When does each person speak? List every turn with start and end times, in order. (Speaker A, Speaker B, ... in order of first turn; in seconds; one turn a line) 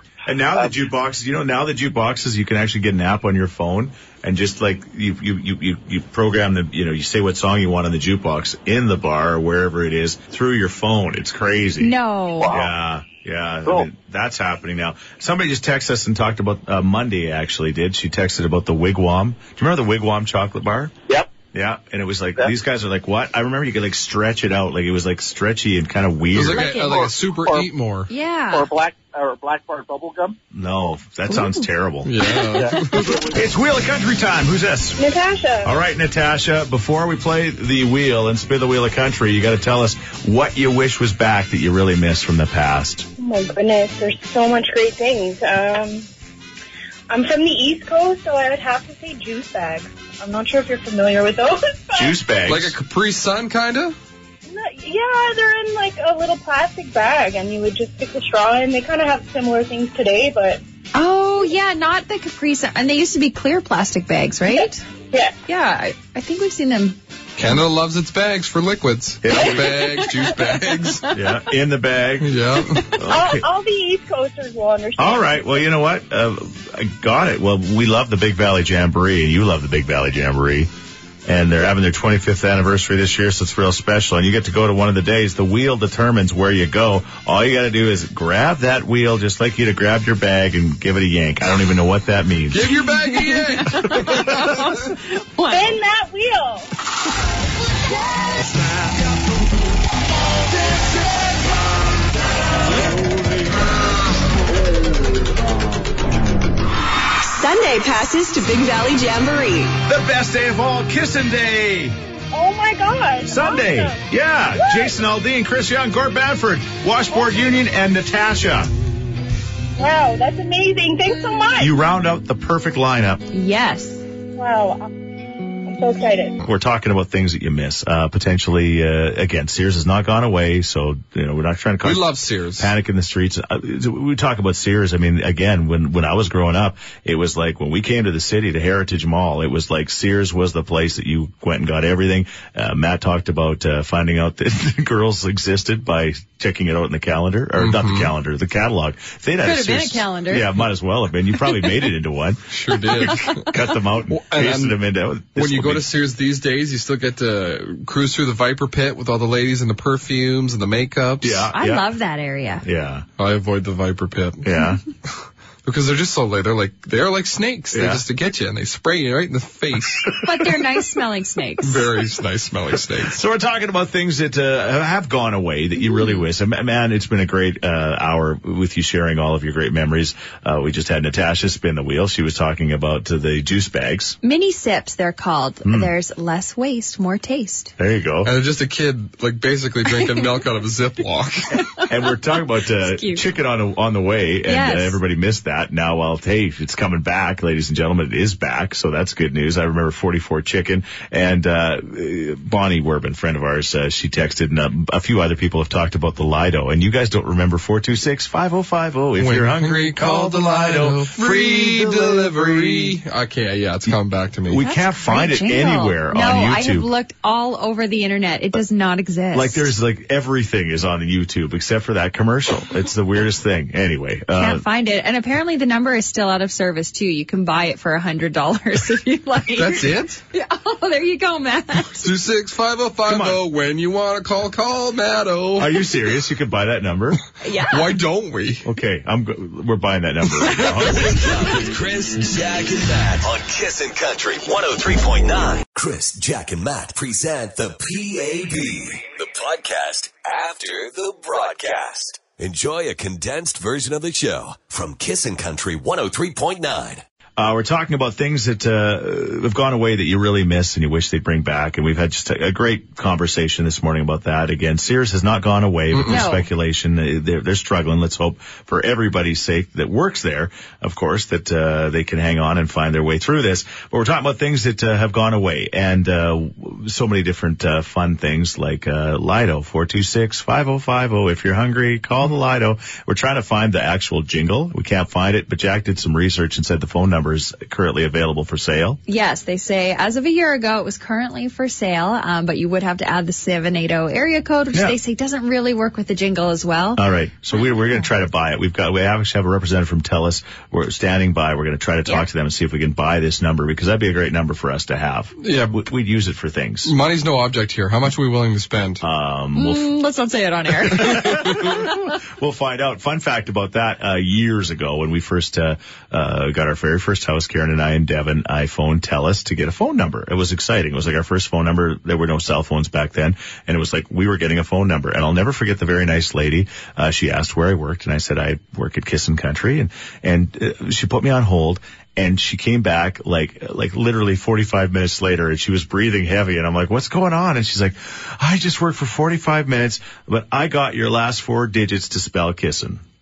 Speaker A: 0.3-11.9
Speaker B: 11.8-12.5
Speaker C: 12.4-12.7
Speaker A: 12.4-20.9
Speaker A: 21.5-26.7
Speaker D: 26.3-28.1
Speaker B: 26.5-27.1
Speaker C: 26.8-27.7
Speaker B: 28.1-28.7
Speaker C: 28.5-30.4
Speaker A: 30.5-32.1
Speaker B: 31.3-31.6
Speaker D: 32.0-33.2
Speaker C: 32.5-33.4
Speaker A: 33.3-35.0
Speaker E: 35.0-35.7
Speaker A: 35.6-43.1
Speaker E: 43.2-46.1
Speaker E: 47.1-52.2
Speaker A: 51.9-52.8
Speaker D: 52.5-54.0
Speaker E: 54.5-60.6
Speaker B: 60.9-64.8
Speaker E: 64.5-65.3
Speaker B: 65.5-67.0
Speaker D: 67.4-71.1
Speaker A: 69.2-69.8
Speaker A: 71.1-72.4
Speaker D: 72.2-72.9
Speaker A: 73.0-73.5
Speaker E: 73.1-75.4
Speaker A: 75.0-80.7
Speaker A: 81.3-92.7
Speaker D: 92.5-94.5
Speaker B: 93.0-95.8
Speaker E: 95.5-96.7
Speaker F: 107.2-109.8
Speaker A: 109.9-112.0
Speaker E: 112.3-114.0
Speaker A: 113.3-118.7
Speaker E: 114.5-115.0
Speaker E: 117.1-117.6
Speaker E: 119.8-121.8
Speaker A: 121.6-123.2
Speaker B: 123.3-124.0
Speaker E: 124.3-124.9
Speaker E: 125.6-126.3
Speaker A: 126.4-132.1
Speaker D: 131.8-132.7
Speaker A: 132.6-155.9
Speaker D: 147.6-148.1
Speaker B: 149.4-150.5
Speaker D: 152.5-153.6
Speaker D: 154.1-154.8
Speaker D: 155.3-161.4
Speaker A: 161.2-161.9
Speaker B: 161.5-162.6
Speaker A: 162.6-163.1
Speaker D: 163.2-164.5
Speaker A: 164.4-164.8
Speaker D: 165.6-170.1
Speaker A: 167.7-168.0
Speaker B: 170.2-171.9
Speaker D: 171.6-173.2
Speaker A: 172.9-184.2
Speaker B: 184.2-187.7
Speaker A: 185.6-185.9
Speaker A: 187.8-188.3
Speaker D: 188.2-191.6
Speaker A: 191.9-213.0
Speaker B: 192.8-193.3
Speaker B: 194.4-195.0
Speaker D: 209.2-214.6
Speaker A: 214.5-216.9
Speaker B: 214.6-219.7
Speaker A: 219.3-224.6
Speaker B: 224.4-232.1
Speaker D: 229.6-230.2
Speaker D: 232.0-235.9
Speaker A: 233.1-233.4
Speaker A: 235.6-237.2
Speaker B: 237.4-237.9
Speaker D: 237.7-238.7
Speaker A: 238.6-241.3
Speaker G: 240.9-257.1
Speaker A: 257.4-289.0
Speaker D: 265.9-266.2
Speaker B: 266.1-266.5
Speaker B: 289.1-297.0
Speaker A: 296.9-306.9
Speaker D: 305.4-305.8
Speaker D: 306.9-309.0
Speaker A: 309.0-309.9
Speaker B: 309.6-311.7
Speaker A: 310.9-343.0